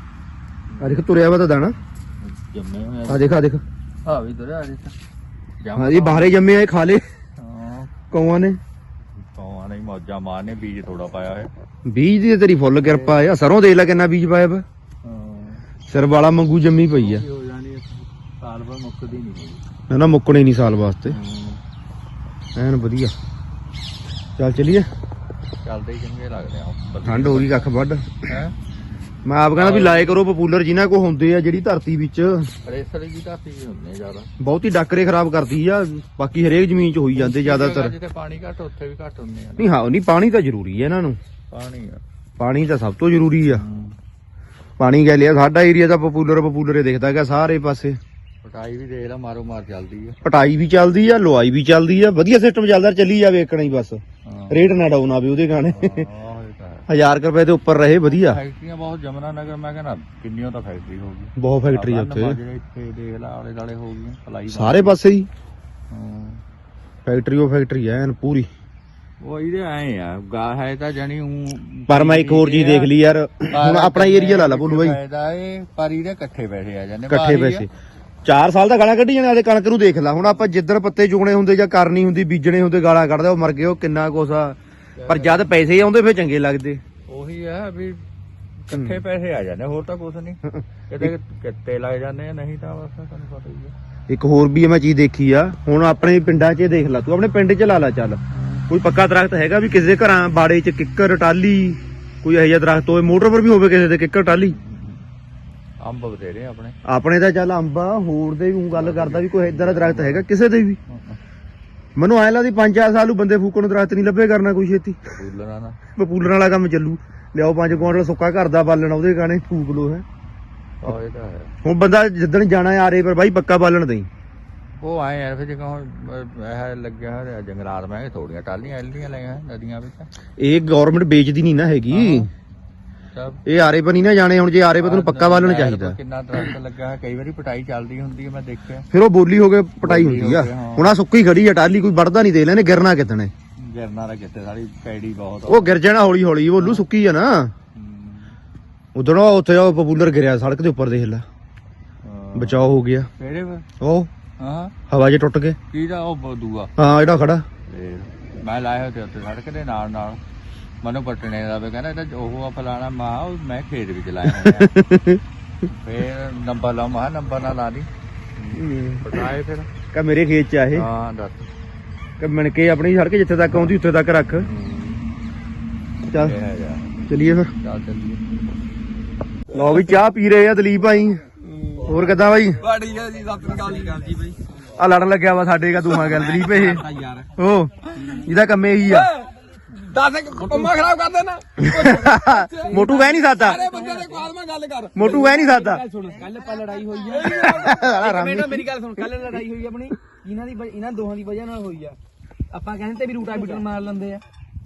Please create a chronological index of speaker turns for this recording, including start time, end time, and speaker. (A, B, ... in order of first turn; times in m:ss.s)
0:00.7-0:01.1 A
0:00.8-0:01.8 B
0:02.2-0:03.4 A
0:03.1-0:03.6 B
0:04.0-0:04.9 A
0:05.6-0:06.4 A
0:05.8-0:07.0 B
0:07.4-0:08.0 A
0:08.1-0:08.6 B
0:09.3-0:11.5 A
0:11.9-0:14.6 B
0:12.8-0:13.3 A
0:15.0-0:15.6 A
0:15.9-0:17.2 B
0:16.9-0:19.6 A
0:19.9-0:21.2 B
0:21.0-0:21.6 A
0:22.6-0:23.1 B
0:24.4-0:24.9 B
0:25.6-0:27.7 A
0:27.0-0:28.1 B
0:28.3-0:28.5 A
0:29.2-0:32.5 B
0:29.6-0:30.2 A
0:32.6-0:34.3 A
0:34.4-0:38.0 B
0:37.2-0:39.7 A
0:39.6-0:41.2 B
0:41.5-0:42.0 A
0:42.4-0:43.6 B
0:43.5-0:44.0 A
0:44.8-0:48.0 B
0:48.4-0:50.2 A
0:50.2-0:56.0 B
0:54.2-0:54.8 A
0:55.8-0:56.9 A
0:56.9-0:58.4 B
0:58.1-1:05.0 A
1:01.4-1:02.4 B
1:04.5-1:05.3 B
1:05.9-1:06.4 A
1:07.1-1:08.5 B
1:09.2-1:12.9 A
1:11.9-1:15.0 B
1:13.5-1:17.7 A
1:17.1-1:17.7 B
1:18.2-1:26.8 B
1:25.0-1:25.5 A
1:27.1-1:28.0 A
1:28.7-1:33.7 A
1:30.5-1:31.1 B
1:34.1-1:44.6 B
1:44.4-1:45.1 A
1:45.8-1:46.8 A
1:46.9-1:50.8 B
1:48.7-1:50.3 A
1:50.9-1:51.2 A
1:52.0-1:55.0 B
1:55.1-1:55.8 A
1:55.9-2:00.0 B
1:57.7-1:57.9 A
2:00.8-2:01.5 A
2:01.6-2:04.1 B
2:04.8-2:10.1 A
2:10.4-2:12.3 B
2:11.9-2:12.3 A
2:13.1-2:13.4 A
2:13.5-2:16.0 B
2:14.8-2:18.8 A
2:18.9-2:23.3 B
2:19.8-2:21.0 A
2:23.6-2:25.7 A
2:25.5-2:27.5 B
2:26.6-2:26.8 A
2:27.8-2:28.4 A
2:29.0-2:31.2 B
2:32.0-2:33.6 A
2:32.4-2:33.1 B
2:33.8-2:34.1 B
2:34.4-2:34.7 A
2:34.9-2:35.6 B
2:35.7-2:36.7 A
2:36.8-2:37.4 B
2:37.7-2:40.2 A
2:40.8-2:44.8 A
2:44.3-2:45.2 B
2:45.7-2:49.7 A
2:48.5-2:49.2 B
2:49.9-2:50.9 B
2:50.7-2:51.5 A
2:52.2-2:54.5 B
2:54.4-2:55.0 A
2:56.1-2:56.4 B
2:56.1-2:57.0 A
2:57.1-2:57.5 B
2:57.6-2:58.2 A
2:59.5-3:01.2 B
3:01.4-3:02.0 C
3:01.9-3:02.6 B
3:02.6-3:04.3 C
3:03.7-3:04.1 D
3:04.8-3:06.8 B
3:06.1-3:07.3 D
3:07.4-3:09.1 B
3:08.0-3:08.3 D
3:08.9-3:09.3 C
3:09.8-3:12.8 C
3:11.6-3:13.6 B
3:12.7-3:14.2 D
3:13.4-3:15.3 C
3:15.0-3:15.8 B
3:15.0-3:22.0 D
3:17.1-3:17.7 C
3:17.4-3:18.7 B
3:22.5-3:24.2 D